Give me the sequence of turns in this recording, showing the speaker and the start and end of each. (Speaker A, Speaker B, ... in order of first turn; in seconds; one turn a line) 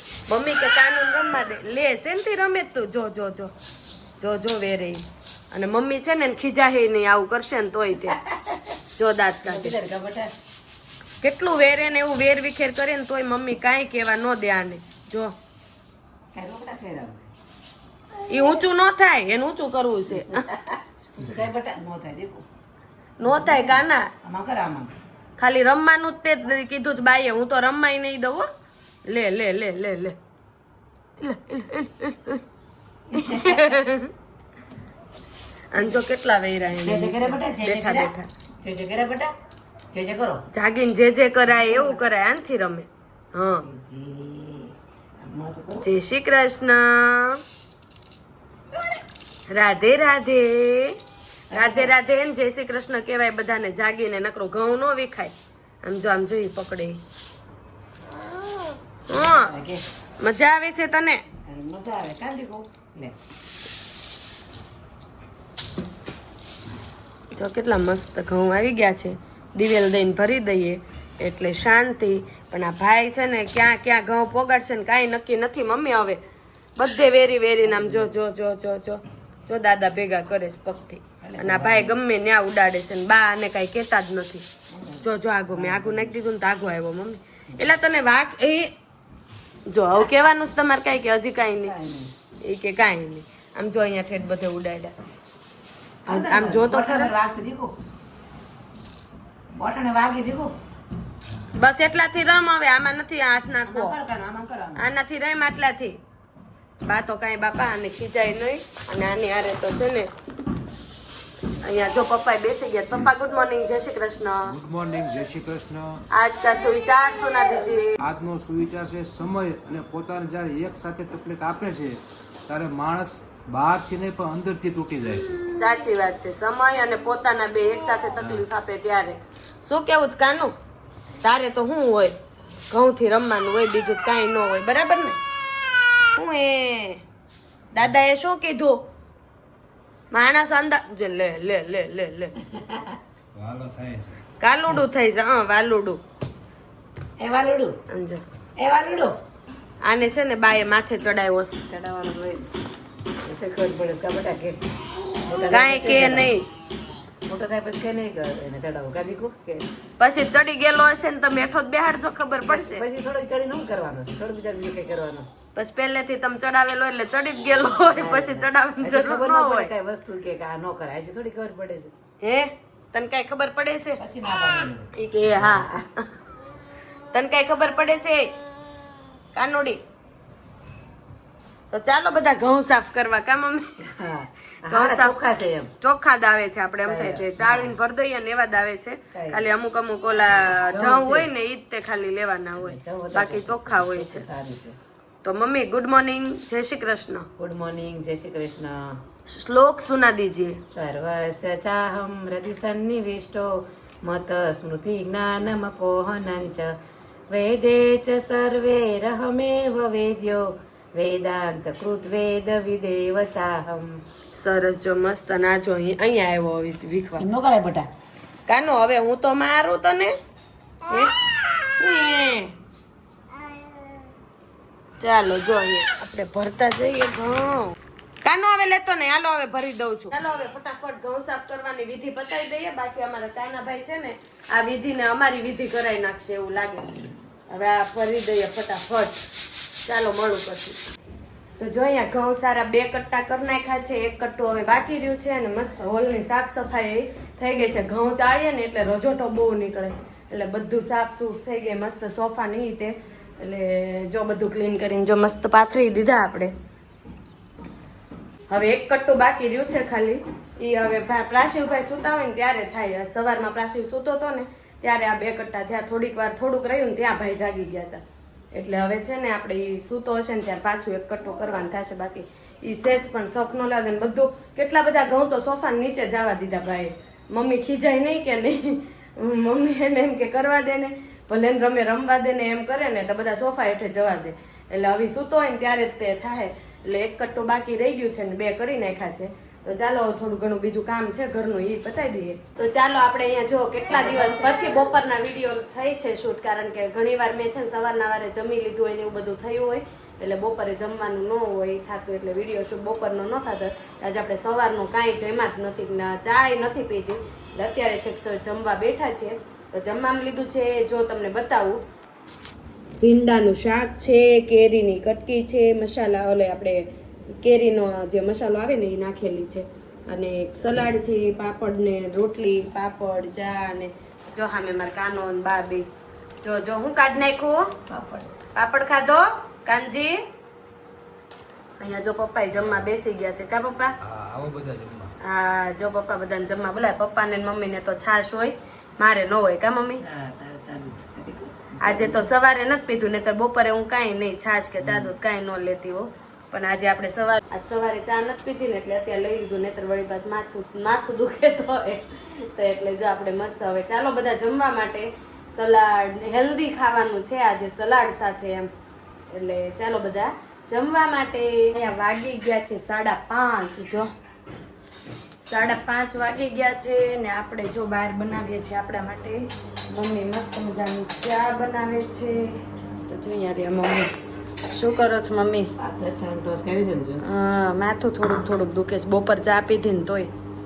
Speaker A: 0.3-3.5
Speaker A: 4.2-8.2
Speaker B: 8.1-8.8
Speaker A: 8.9-9.8
Speaker B: 9.4-10.3
Speaker A: 11.2-15.3
Speaker B: 16.3-17.3
Speaker A: 18.3-20.4
Speaker B: 20.1-22.4
Speaker A: 23.2-24.1
Speaker B: 23.2-23.7
Speaker B: 24.2-24.9
Speaker A: 25.4-28.5
Speaker A: 29.0-30.2
Speaker A: 31.2-32.4
Speaker B: 33.1-33.8
Speaker A: 33.1-34.1
Speaker A: 35.7-38.3
Speaker B: 36.8-39.3
Speaker B: 39.9-40.4
Speaker A: 40.5-43.6
Speaker B: 41.5-42.0
Speaker B: 43.5-45.9
Speaker A: 45.8-47.4
Speaker A: 49.5-51.0
Speaker B: 51.5-52.0
Speaker A: 51.5-57.0
Speaker A: 59.1-59.5
Speaker B: 59.1-59.8
Speaker A: 60.2-61.2
Speaker B: 61.5-63.1
Speaker A: 67.3-76.2
Speaker A: 76.8-84.5
Speaker B: 77.6-78.1
Speaker B: 81.2-82.0
Speaker B: 84.7-86.1
Speaker A: 85.0-88.7
Speaker A: 89.7-91.7
Speaker B: 91.6-92.1
Speaker A: 92.4-94.9
Speaker B: 96.0-97.8
Speaker A: 96.1-97.1
Speaker B: 99.5-100.5
Speaker A: 101.5-104.0
Speaker B: 103.6-104.9
Speaker A: 104.8-106.0
Speaker A: 106.8-110.1
Speaker A: 111.6-114.5
Speaker C: 114.4-116.0
Speaker A: 116.1-118.0
Speaker C: 118.0-125.3
Speaker A: 125.4-130.5
Speaker C: 128.2-128.4
Speaker A: 131.2-132.2
Speaker A: 132.7-135.2
Speaker A: 136.1-137.0
Speaker A: 137.7-138.8
Speaker A: 140.1-142.3
Speaker B: 142.5-143.0
Speaker C: 143.3-144.2
Speaker A: 144.4-146.0
Speaker B: 147.2-147.8
Speaker A: 147.9-148.2
Speaker B: 148.6-149.2
Speaker A: 149.8-151.6
Speaker B: 151.7-152.5
Speaker B: 153.2-154.6
Speaker B: 155.2-156.3
Speaker A: 155.5-156.4
Speaker B: 157.2-159.7
Speaker A: 160.0-162.8
Speaker B: 162.4-165.3
Speaker A: 165.5-169.7
Speaker B: 167.8-171.9
Speaker A: 172.2-174.0
Speaker B: 174.0-175.7
Speaker A: 174.9-176.1
Speaker A: 177.1-178.3
Speaker A: 179.3-179.8
Speaker A: 181.7-183.8
Speaker B: 183.8-185.7
Speaker A: 184.6-185.2
Speaker A: 185.8-194.2
Speaker B: 186.8-187.7
Speaker B: 189.1-189.4
Speaker B: 190.4-191.3
Speaker B: 192.6-194.8
Speaker A: 195.2-197.3
Speaker B: 197.4-199.0
Speaker A: 199.3-200.6
Speaker B: 200.7-206.7
Speaker B: 207.3-214.0
Speaker A: 214.3-217.3
Speaker B: 217.2-217.9
Speaker A: 218.5-220.1
Speaker A: 220.9-221.1
Speaker A: 221.8-222.5
Speaker A: 225.0-236.9
Speaker A: 237.5-239.3
Speaker A: 239.8-240.8
Speaker A: 241.6-256.5
Speaker A: 258.5-268.0
Speaker A: 268.5-311.8
Speaker B: 293.9-294.8
Speaker A: 313.0-325.9
Speaker A: 326.4-327.6
Speaker B: 327.9-328.4
Speaker A: 328.5-330.2
Speaker A: 331.8-333.9
Speaker C: 334.0-335.1
Speaker A: 335.2-340.0
Speaker B: 340.0-342.3
Speaker A: 341.8-358.7
Speaker A: 359.3-364.1
Speaker A: 365.4-372.6
Speaker A: 373.1-374.1
Speaker A: 374.7-375.7
Speaker B: 375.8-377.2
Speaker A: 377.2-380.3